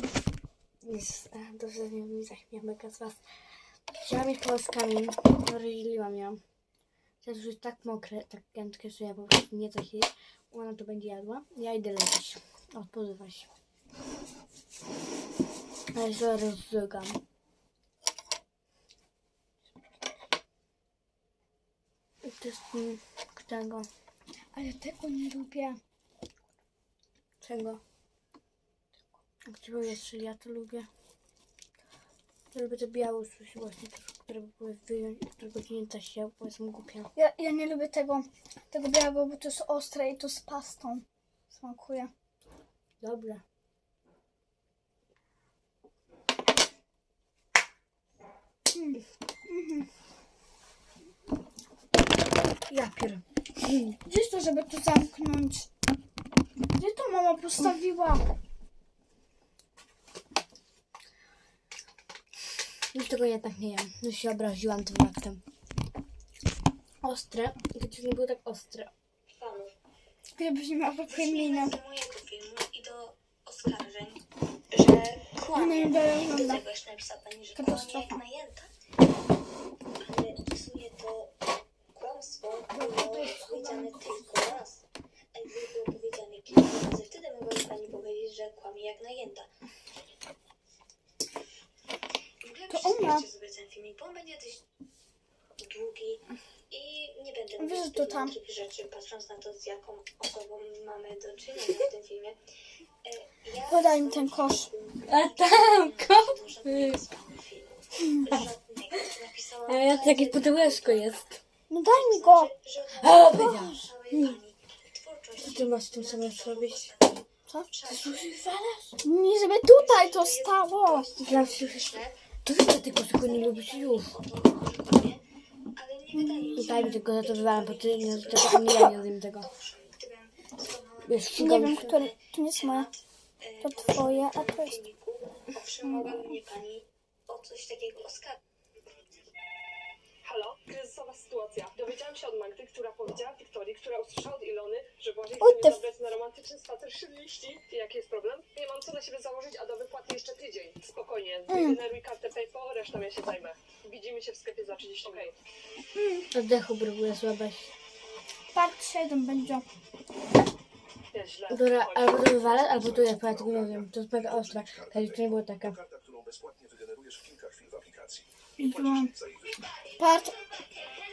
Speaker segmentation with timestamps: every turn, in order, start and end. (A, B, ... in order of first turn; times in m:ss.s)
0:00.8-0:03.2 A
0:04.0-0:06.4 A
0:07.2-0:13.5 A
0:15.9-0:17.2 A
0:22.2-0:23.9 A
0:24.5-0:25.8 B
0:27.4-0:27.8 A
0:29.4-0:30.9 A
0:32.5-0:37.1 A
0:37.2-0:42.1 B
0:43.0-0:43.4 A
0:48.7-0:49.9 B
0:52.7-0:54.0 A
0:54.0-0:55.7 B
0:56.8-0:58.2 B
1:02.9-1:05.4 A
1:07.0-1:08.9 A
1:09.3-1:09.7 C
1:10.4-1:11.8 B
1:11.0-1:18.7 C
1:15.5-1:16.6 B
1:17.5-1:18.2 B
1:20.0-1:24.8 C
1:22.7-1:24.1 B
1:25.3-1:29.5 C
1:32.4-1:34.6 C
1:32.7-1:33.3 B
1:35.6-1:42.4 C
1:37.6-1:38.3 B
1:43.0-1:51.2 C
1:43.7-1:44.7 B
1:45.1-1:47.0 A
1:48.0-1:48.3 B
1:49.6-1:51.4 A
1:51.7-1:52.5 B
1:51.8-1:58.4 C
1:53.0-1:53.8 A
1:53.2-1:54.4 B
1:55.4-1:56.9 A
1:57.5-1:57.7 B
1:57.9-1:58.9 A
1:59.0-2:01.1 B
1:59.5-2:02.2 C
2:01.2-2:04.2 A
2:03.2-2:05.2 C
2:05.8-2:18.4 C
2:06.1-2:07.0 B
2:06.6-2:09.5 A
2:11.0-2:11.9 A
2:11.3-2:12.9 B
2:13.6-2:14.8 B
2:15.8-2:16.3 B
2:20.2-2:35.4 D
2:25.4-2:25.8 B
2:31.5-2:31.8 B
2:35.9-2:36.3 B
2:36.3-2:37.7 A
2:38.5-2:39.6 B
2:41.1-2:42.4 D
2:41.5-2:45.8 A
2:46.1-2:48.2 E
2:48.6-2:49.1 B
2:50.0-2:50.3 B